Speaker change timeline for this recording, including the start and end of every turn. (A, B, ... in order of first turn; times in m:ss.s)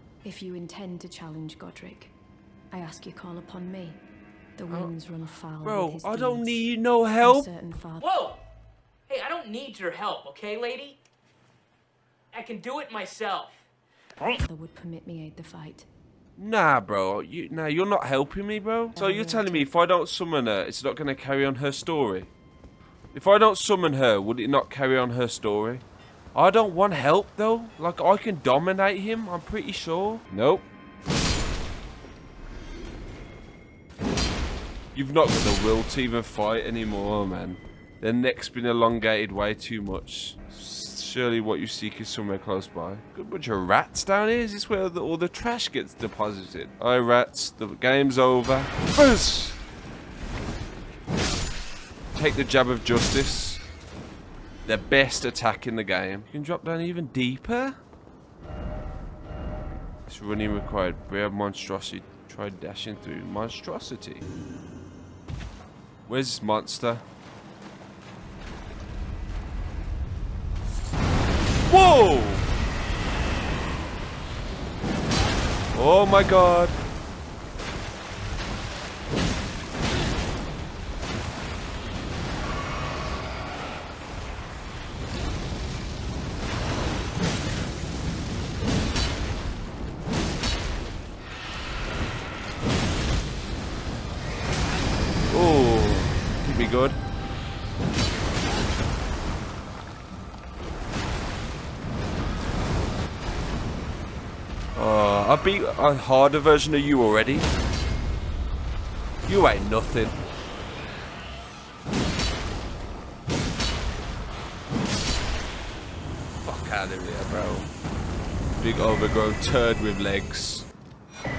0:00.2-0:02.2 A
0:02.7-0:04.0 A
0:04.6-0:06.6 A
0:05.6-0:07.5 B
0:07.2-0:08.1 A
0:08.0-0:08.4 C
0:09.1-0:11.0 C
0:12.3-0:13.7 C
0:14.4-0:15.9 A
0:16.4-0:22.3 B
0:19.0-0:19.7 A
0:23.1-0:30.7 B
0:35.0-0:49.6 B
0:52.1-0:53.6 B
0:54.7-0:57.8 B
1:00.1-1:04.3 B
1:06.1-1:07.0 B
1:11.7-1:12.5 B
1:15.7-1:16.8 B
1:35.3-1:37.0 B
1:44.8-1:47.5 B
1:49.3-1:50.2 B
1:56.4-1:57.7 B
1:58.6-2:00.7 B